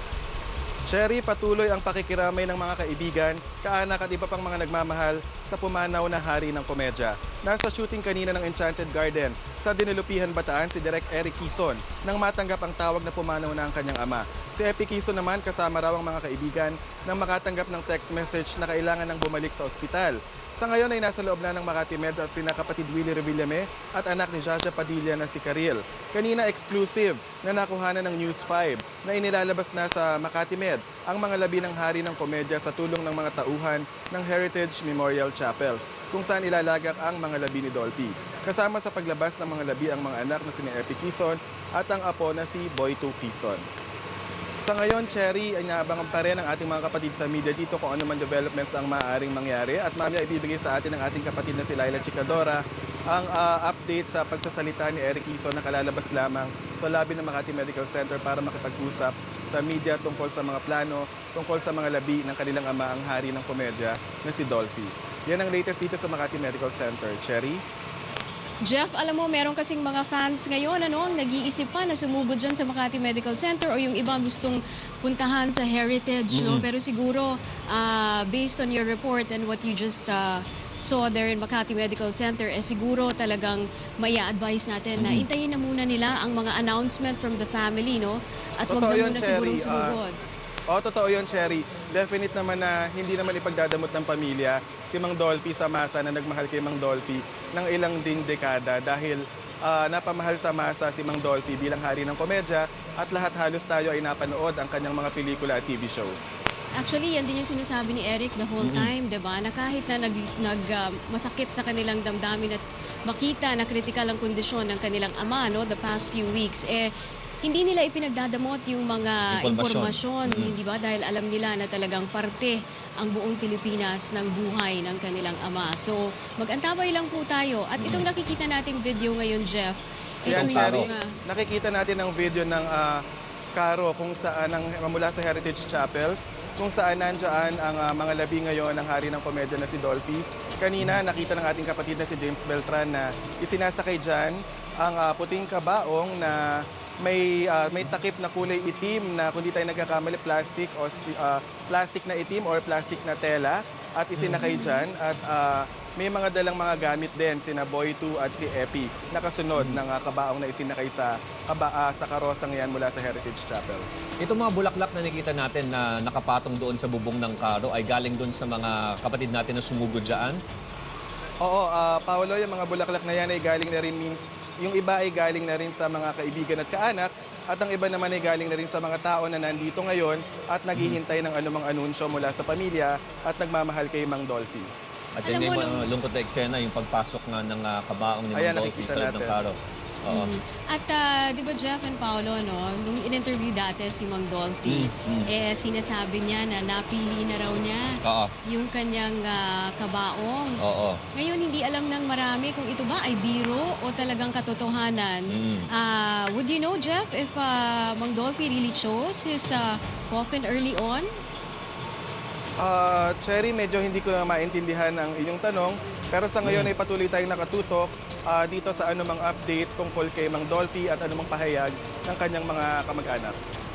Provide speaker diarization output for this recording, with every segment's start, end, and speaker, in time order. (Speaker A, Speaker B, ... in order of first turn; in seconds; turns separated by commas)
Speaker A: 0.9-43.6, Speaker A: 44.6-67.6, Speaker B: 68.7-90.2, Speaker C: 76.3-76.7, Speaker C: 85.0-85.3, Speaker A: 88.7-90.0, Speaker A: 90.7-106.3, Speaker B: 106.8-116.9, Speaker C: 108.6-108.9, Speaker B: 117.4-131.2, Speaker C: 119.3-120.5, Speaker C: 127.8-128.1, Speaker A: 130.3-133.0, Speaker C: 130.3-130.9, Speaker A: 133.6-163.9, Speaker C: 154.2-154.4, Speaker B: 154.4-154.9, Speaker C: 159.6-159.8, Speaker C: 164.2-170.4, Speaker A: 171.4-184.7, Speaker C: 185.2-190.3, Speaker B: 185.2-185.8, Speaker A: 188.3-189.4, Speaker B: 190.1-200.6, Speaker C: 194.7-195.3, Speaker C: 198.0-198.3, Speaker C: 200.6-201.0, Speaker B: 201.1-211.1, Speaker C: 205.3-205.7, Speaker A: 212.6-223.4, Speaker C: 216.4-216.7